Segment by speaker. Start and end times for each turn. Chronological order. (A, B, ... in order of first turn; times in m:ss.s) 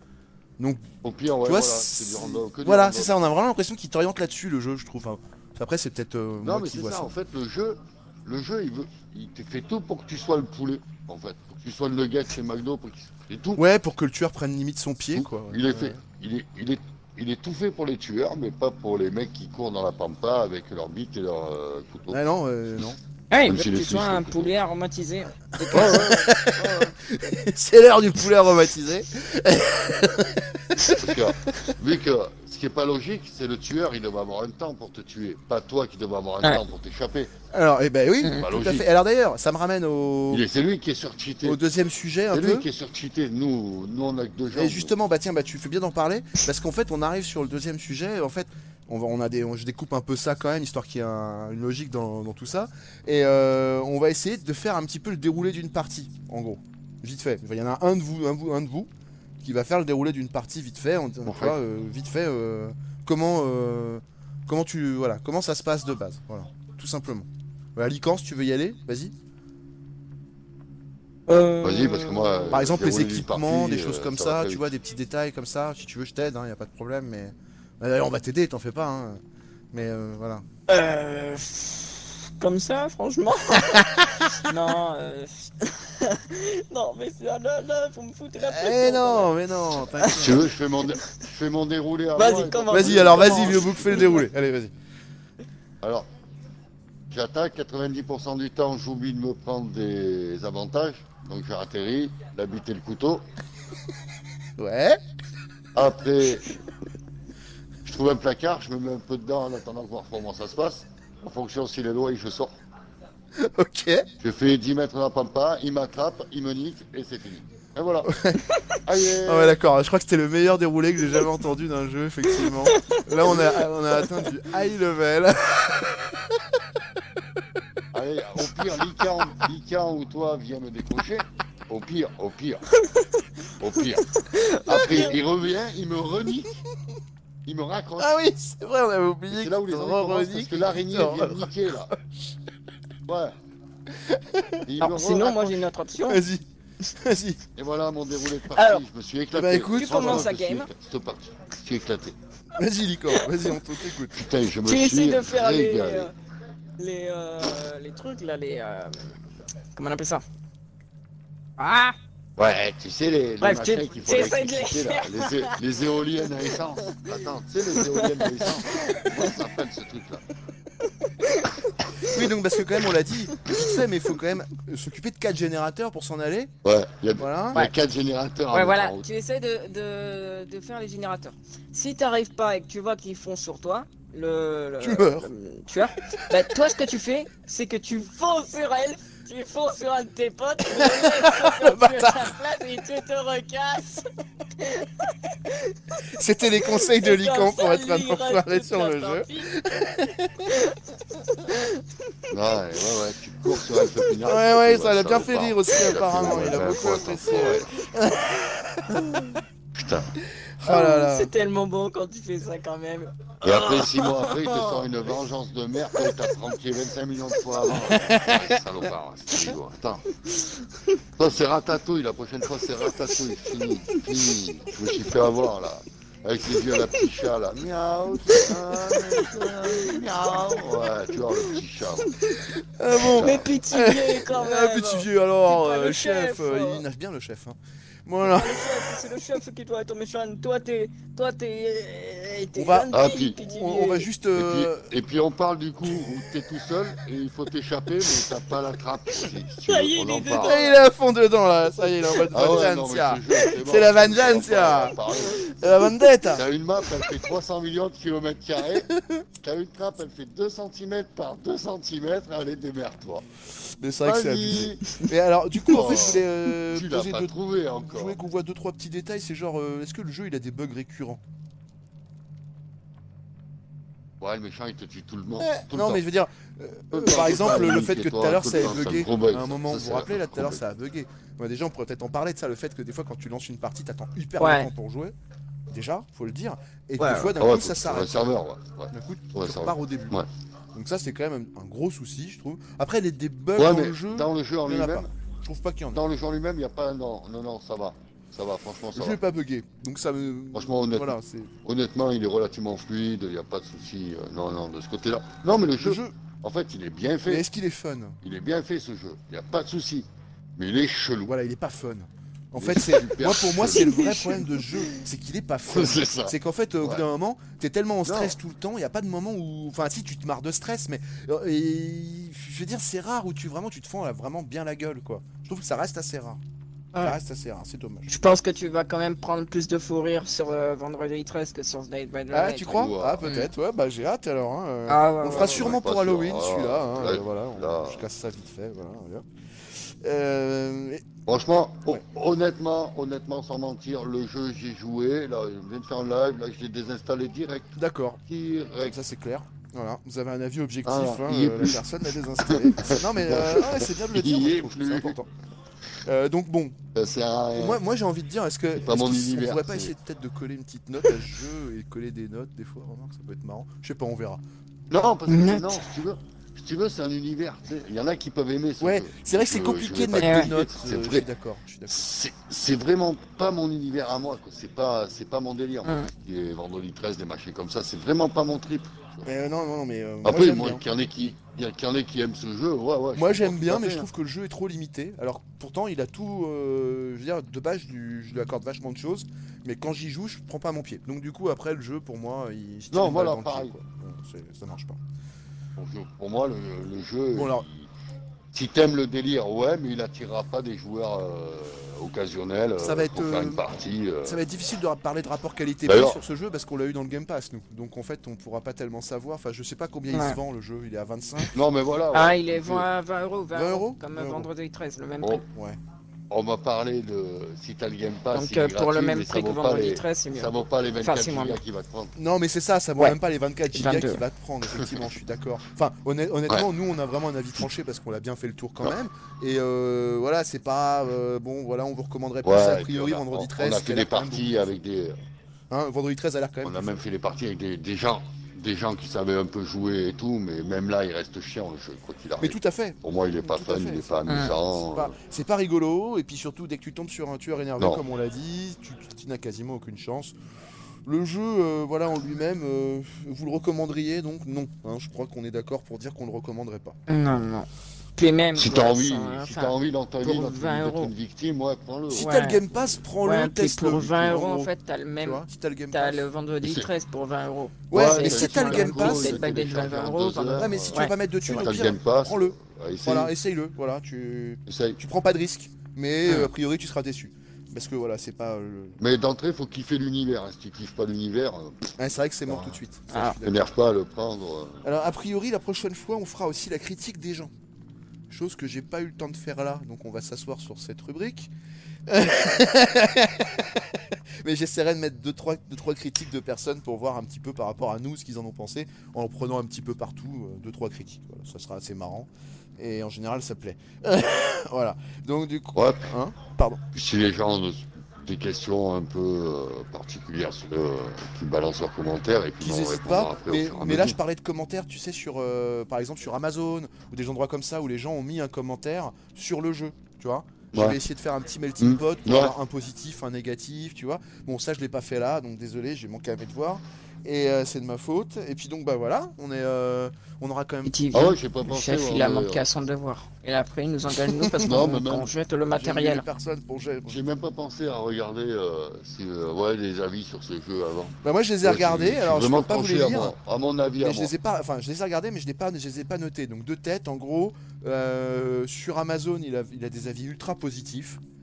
0:01.0-0:03.2 A
0:01.4-0:07.1 B
0:06.4-0:13.6 A
0:13.6-0:16.0 B
0:15.1-0:24.5 A
0:22.1-0:23.0 B
0:23.3-0:26.9 C
0:25.7-0:31.0 B
0:25.7-0:26.3 A
0:30.9-0:37.3 A
0:37.5-0:40.4 B
0:38.4-0:38.9 A
0:40.3-0:41.6 A
0:41.4-0:42.7 B
0:42.3-0:44.9 A
0:44.5-0:58.9 B
0:59.4-1:09.1 B
1:01.2-1:01.6 A
1:11.3-1:12.4 C
1:11.6-1:14.7 A
1:12.4-1:19.2 B
1:19.7-1:20.4 B
1:20.7-1:29.3 C
1:28.4-1:30.4 B
1:30.0-1:30.4 C
1:30.0-1:34.2 A
1:32.1-1:34.3 C
1:32.7-1:34.7 B
1:35.8-1:36.1 A
1:37.1-1:43.2 A
1:44.6-1:45.0 B
1:45.7-1:46.5 A
1:47.8-1:52.5 A
1:53.4-1:54.1 B
1:54.2-1:58.1 A
1:58.0-1:58.4 B
1:58.8-1:59.6 A
1:59.2-2:06.3 B
2:07.9-2:12.6 A
2:12.8-2:13.1 C
2:13.6-2:14.0 A
2:13.9-2:15.2 C
2:14.6-2:16.5 A
2:17.4-2:18.1 A
2:18.0-2:22.0 B
2:19.3-2:21.9 A
2:23.1-2:23.3 A
2:24.1-2:24.7 B
2:24.6-2:25.7 A
2:24.8-2:26.2 C
2:26.1-2:26.4 B
2:27.0-2:27.4 B
2:27.6-2:32.2 A
2:28.5-2:28.8 C
2:29.3-2:30.3 B
2:29.7-2:30.7 C
2:32.5-2:34.2 B
2:33.2-2:33.6 C
2:34.1-2:36.1 A
2:34.6-2:36.1 C
2:36.8-2:39.2 C
2:39.7-2:40.2 C
2:41.6-2:42.0 C
2:42.4-2:50.2 A
2:43.4-2:45.6 C
2:47.8-2:49.2 C
2:51.2-2:51.5 C
2:52.1-2:56.5 B
2:56.6-2:59.0 A
2:57.2-2:57.6 B
2:58.5-3:14.1 C
3:04.8-3:05.3 B
3:10.8-3:12.1 B
3:14.6-3:15.8 C
3:16.1-3:20.5 B
3:16.9-3:19.5 C
3:20.5-3:21.6 C
3:22.3-3:27.7 A
3:24.2-3:29.0 B
3:27.4-3:27.6 C
3:29.7-3:30.1 A
3:30.6-3:31.3 B
3:30.6-3:34.9 C
3:33.4-3:40.1 A
3:37.9-3:38.6 B
3:41.2-3:52.2 A
3:48.7-3:52.4 C
3:52.5-3:58.9 B
3:53.0-3:53.5 A
3:53.0-3:56.8 C
3:58.2-4:04.1 C
4:02.5-4:04.9 B
4:02.9-4:03.4 A
4:04.3-4:10.6 A
4:09.6-4:10.8 C
4:10.4-4:16.4 B
4:12.1-4:12.6 C
4:12.3-4:15.5 A
4:15.1-4:16.0 C
4:16.3-4:23.2 A
4:18.8-4:19.2 B
4:23.8-4:31.2 B
4:24.0-4:25.0 A
4:25.6-4:28.2 A
4:34.2-4:36.0 A
4:35.4-4:45.1 B
4:36.9-4:40.6 A
4:44.4-4:44.7 C
4:45.7-4:48.4 B
4:47.0-4:47.4 C
4:47.4-4:50.3 A
4:48.9-4:50.2 B
4:50.7-4:56.0 B
4:53.6-4:55.1 A
4:55.9-4:59.2 A
4:58.9-5:01.5 B
5:00.5-5:07.4 A
5:05.8-5:06.2 B
5:07.3-5:08.2 B
5:08.2-5:11.3 A
5:11.2-5:26.4 B
5:12.6-5:13.9 A
5:13.7-5:14.8 C
5:15.6-5:17.0 A
5:18.0-5:18.4 A
5:26.9-5:28.1 B
5:28.1-5:33.5 C
5:32.3-5:41.0 B
5:32.7-5:33.2 A
5:34.9-5:35.8 C
5:35.2-5:38.0 A
5:41.2-5:49.0 A
5:47.7-5:48.2 B
5:48.8-5:55.3 B
5:50.8-5:55.2 A
5:56.0-5:56.8 B
5:56.9-5:57.8 A
5:57.6-6:04.4 B
5:58.7-5:59.9 A
6:04.9-6:11.3 A
6:05.3-6:05.8 C
6:08.8-6:12.1 B
6:10.2-6:10.5 C
6:11.9-6:19.3 A
6:15.8-6:16.1 C
6:19.2-6:20.8 B
6:20.2-6:24.1 A
6:23.1-6:35.0 B
6:32.9-6:33.7 A
6:35.8-6:37.9 A
6:37.3-6:37.6 B
6:38.5-6:44.4 A
6:42.8-6:43.6 B
6:44.2-6:51.5 B
6:45.9-6:46.2 A
6:50.1-6:50.4 C
6:51.5-6:52.9 A
6:52.1-6:55.4 C
6:53.5-6:54.5 B
6:55.5-6:55.8 B
6:56.3-7:02.2 A
6:58.3-7:01.6 C
7:02.2-7:14.8 B
7:03.7-7:04.2 C
7:04.7-7:05.1 A
7:12.4-7:15.2 A
7:15.7-7:17.0 B
7:16.6-7:25.1 A
7:22.4-7:30.3 B
7:24.2-7:24.6 C
7:31.0-7:37.0 B
7:37.1-7:41.1 C
7:38.6-7:42.3 A
7:42.1-7:46.3 B
7:42.2-7:42.6 C
7:43.2-7:51.6 C
7:46.6-7:46.9 A
7:47.9-7:49.4 B
7:47.9-7:53.3 A
7:50.5-7:59.0 B
7:54.7-7:55.0 A
7:56.2-7:56.5 C
7:59.0-8:01.9 A
8:02.0-8:03.7 B
8:02.5-8:02.7 A
8:03.1-8:03.4 C
8:03.4-8:04.8 A
8:04.8-8:07.5 B
8:08.3-8:11.5 B
8:12.1-8:26.8 B
8:25.7-8:26.1 A
8:26.9-8:34.2 A
8:32.6-8:51.0 B
8:40.7-8:41.0 A
8:41.8-8:42.6 A
8:50.8-8:56.2 C
8:51.1-8:52.6 A
8:54.5-8:54.8 B
8:54.6-8:55.3 A
8:55.7-8:57.2 B
8:57.1-9:04.3 A
9:01.2-9:03.4 B
9:04.0-9:11.2 B